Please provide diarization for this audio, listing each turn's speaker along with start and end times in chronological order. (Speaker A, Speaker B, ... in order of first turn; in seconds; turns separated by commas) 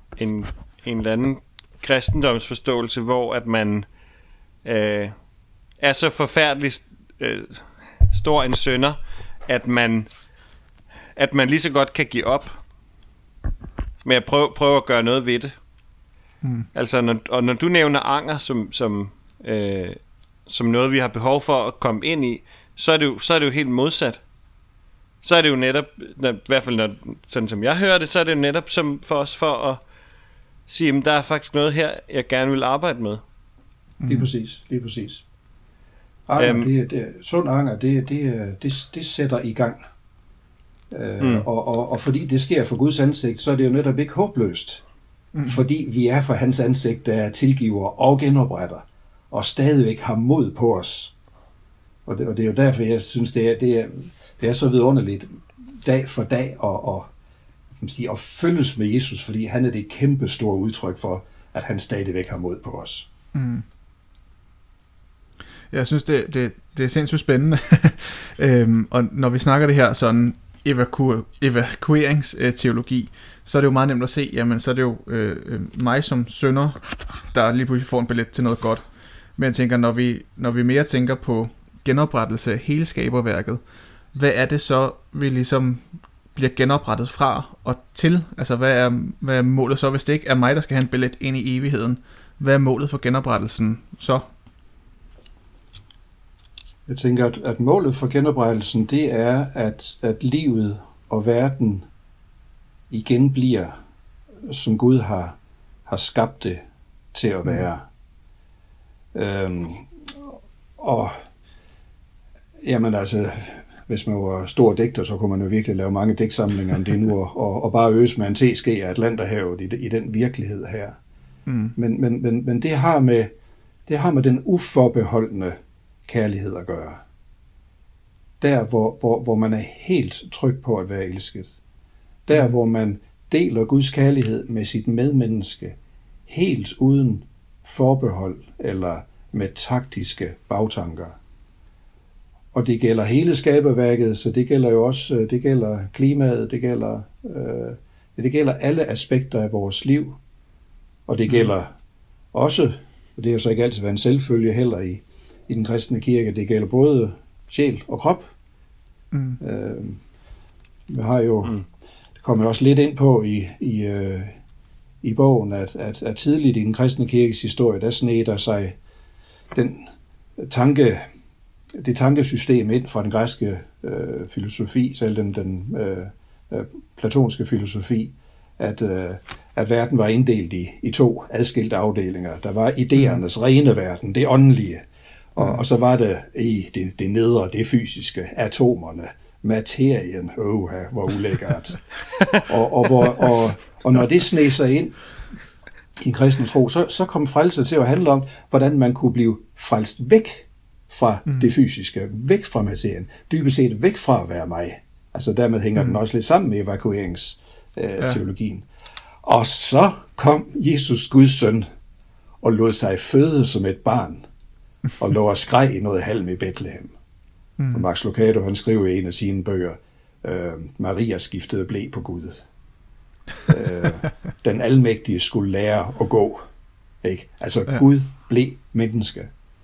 Speaker A: 0.2-3.9, Speaker A: 4.6-5.2, Speaker A: 5.8-10.1, Speaker A: 11.2-12.5, Speaker A: 14.0-15.6, Speaker B: 16.4-16.7, Speaker A: 16.7-24.2, Speaker A: 25.2-29.8, Speaker A: 30.7-33.2, Speaker B: 34.0-34.3, Speaker C: 34.1-35.2, Speaker C: 36.3-39.8, Speaker A: 36.4-36.7, Speaker C: 40.9-44.8, Speaker A: 41.2-41.5, Speaker B: 45.3-45.6, Speaker C: 45.5-51.1, Speaker C: 52.1-57.1, Speaker C: 57.8-63.1, Speaker B: 63.3-63.6, Speaker B: 65.7-83.6, Speaker B: 84.1-94.2, Speaker C: 96.9-101.9, Speaker C: 102.9-103.8, Speaker C: 104.5-106.6, Speaker C: 107.1-107.8, Speaker C: 109.1-111.2, Speaker C: 112.6-121.0, Speaker B: 121.5-121.8, Speaker C: 121.8-123.3, Speaker C: 123.9-127.0, Speaker C: 128.4-131.5, Speaker C: 132.3-135.8, Speaker C: 136.3-141.2, Speaker C: 142.5-150.2, Speaker C: 151.1-151.7, Speaker C: 152.3-158.3, Speaker B: 159.1-159.4, Speaker C: 159.4-160.0, Speaker C: 160.9-161.6, Speaker C: 162.2-164.4, Speaker C: 165.0-168.8, Speaker C: 169.5-171.0, Speaker C: 171.8-191.8, Speaker C: 192.3-195.0, Speaker C: 196.0-208.7, Speaker C: 209.2-211.7, Speaker C: 212.4-214.2, Speaker C: 215.0-216.9, Speaker B: 217.6-217.8, Speaker C: 217.7-222.4, Speaker C: 223.5-226.4, Speaker C: 227.0-229.3